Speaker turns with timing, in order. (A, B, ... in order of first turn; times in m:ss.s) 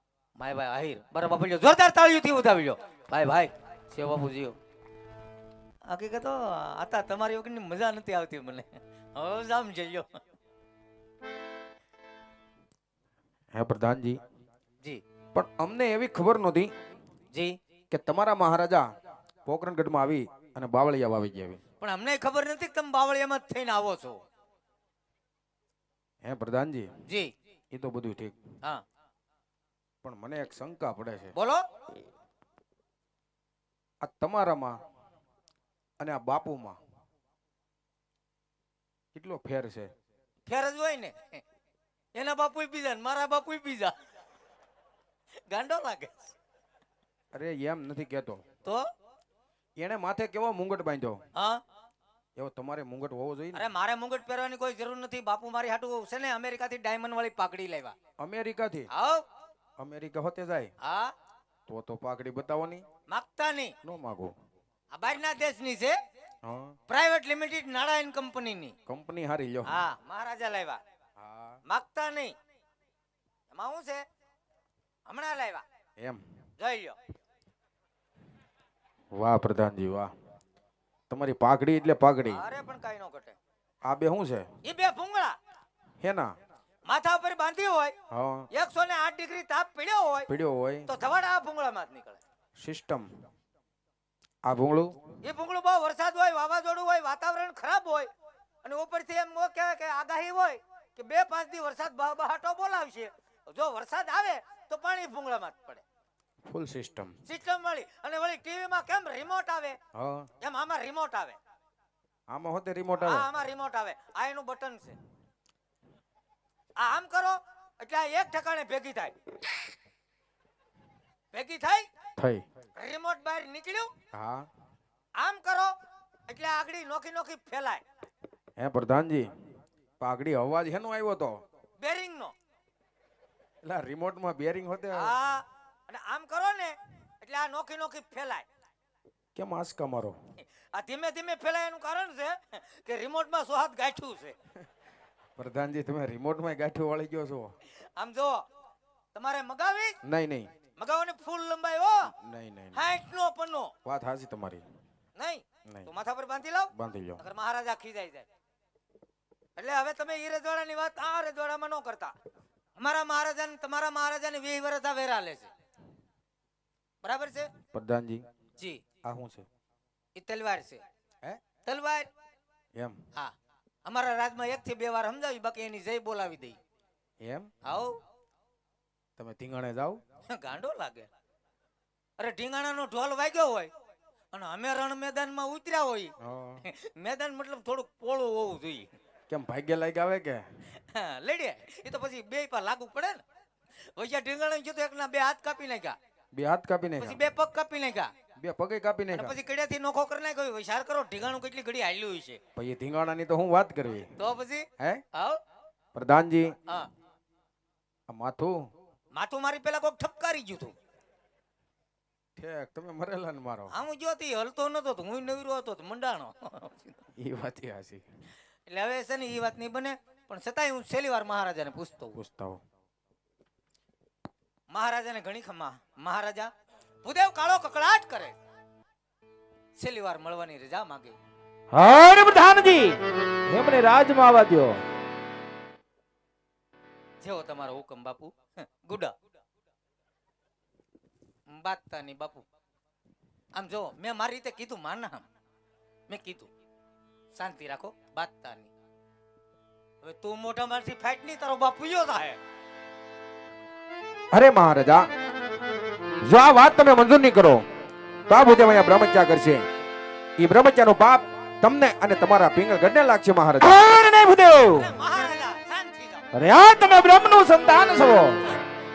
0:00.4-0:04.6 A
0:05.9-0:10.2 A
0:13.6-0:14.2 B
0:15.3-0:16.7 B
0:17.9-0:18.8 B
0:19.5-0:21.6 B
0:21.8-0:24.2 A
0:26.2-0:26.9 B
0:27.1-0:27.3 A
0:27.7-0:28.4 B
0:30.0-0:31.3 B
0:31.4-0:31.6 A
0:34.0-0:34.8 B
0:36.0-0:36.8 B
0:39.1-0:39.9 B
0:40.5-0:41.4 A
0:42.2-0:43.9 A
0:45.5-0:46.3 A
0:47.3-0:48.4 B
0:49.8-0:51.2 B
0:51.4-0:51.6 A
0:52.4-0:53.7 B
0:53.5-0:58.0 A
0:58.2-0:58.9 B
0:58.9-0:59.2 A
0:59.8-1:00.7 B
1:00.8-1:01.1 A
1:01.7-1:02.8 B
1:03.1-1:03.8 A
1:03.8-1:04.3 B
1:04.9-1:06.0 A
1:06.4-1:06.8 B
1:06.9-1:08.8 A
1:08.9-1:09.8 B
1:09.6-1:10.8 A
1:11.2-1:11.6 B
1:11.7-1:12.3 A
1:13.5-1:14.0 A
1:15.1-1:15.6 A
1:16.6-1:17.0 A
1:19.2-1:20.1 B
1:21.1-1:22.4 B
1:22.3-1:23.4 A
1:23.8-1:24.5 B
1:24.6-1:25.4 A
1:26.0-1:26.3 B
1:26.9-1:27.9 A
1:28.1-1:28.5 B
1:28.5-1:30.3 A
1:30.3-1:30.9 B
1:30.9-1:32.2 A
1:32.6-1:33.1 B
1:34.4-1:35.0 B
1:35.2-1:38.1 A
1:38.6-1:45.8 A
1:46.4-1:47.2 B
1:47.3-1:49.8 A
1:50.0-1:50.3 B
1:50.4-1:51.4 A
1:52.3-1:53.3 B
1:53.0-1:55.0 A
1:56.8-1:59.2 A
2:01.3-2:01.9 A
2:02.2-2:02.4 B
2:02.8-2:03.9 A
2:04.1-2:04.5 B
2:05.2-2:05.7 A
2:06.3-2:07.8 A
2:08.6-2:09.3 B
2:10.0-2:11.4 B
2:11.8-2:12.3 A
2:13.6-2:15.1 B
2:14.9-2:18.4 A
2:19.4-2:20.2 B
2:20.7-2:24.4 A
2:25.4-2:27.5 B
2:28.0-2:28.4 A
2:29.1-2:30.0 A
2:30.0-2:30.5 B
2:30.8-2:32.1 A
2:32.1-2:32.8 B
2:32.7-2:33.7 A
2:33.8-2:34.6 B
2:35.2-2:38.3 A
2:36.8-2:37.2 B
2:39.6-2:42.2 A
2:42.8-2:45.5 A
2:47.0-2:47.5 A
2:47.7-2:48.2 B
2:48.6-2:48.8 A
2:49.0-2:49.5 B
2:50.2-2:50.8 A
2:51.6-2:52.1 A
2:53.8-2:56.6 A
2:57.2-2:57.5 B
2:57.6-2:58.0 A
2:59.2-3:00.0 B
3:00.3-3:01.1 A
3:02.2-3:03.7 A
3:04.3-3:08.9 A
3:06.2-3:06.6 B
3:09.3-3:10.4 B
3:10.8-3:13.2 A
3:14.0-3:16.0 A
3:16.3-3:17.2 B
3:17.0-3:18.1 A
3:18.4-3:19.4 B
3:19.1-3:22.4 A
3:22.6-3:24.1 B
3:24.2-3:25.4 A
3:26.0-3:26.5 B
3:28.1-3:28.6 B
3:29.1-3:30.7 A
3:32.4-3:33.7 B
3:33.7-3:37.0 A
3:37.2-3:38.0 B
3:38.7-3:42.2 A
3:42.2-3:42.6 B
3:44.7-3:46.5 A
3:47.0-3:48.4 A
3:49.8-3:51.2 A
3:51.7-3:54.8 C
3:57.2-3:59.2 A
4:01.5-4:02.4 A
4:03.6-4:05.2 A
4:06.1-4:06.5 A
4:07.4-4:08.7 A
4:10.0-4:12.4 A
4:14.3-4:15.1 B
4:16.2-4:17.7 B
4:18.3-4:19.7 B
4:20.4-4:23.8 B
4:23.6-4:24.9 C
4:24.7-4:26.3 A
4:26.3-4:28.5 C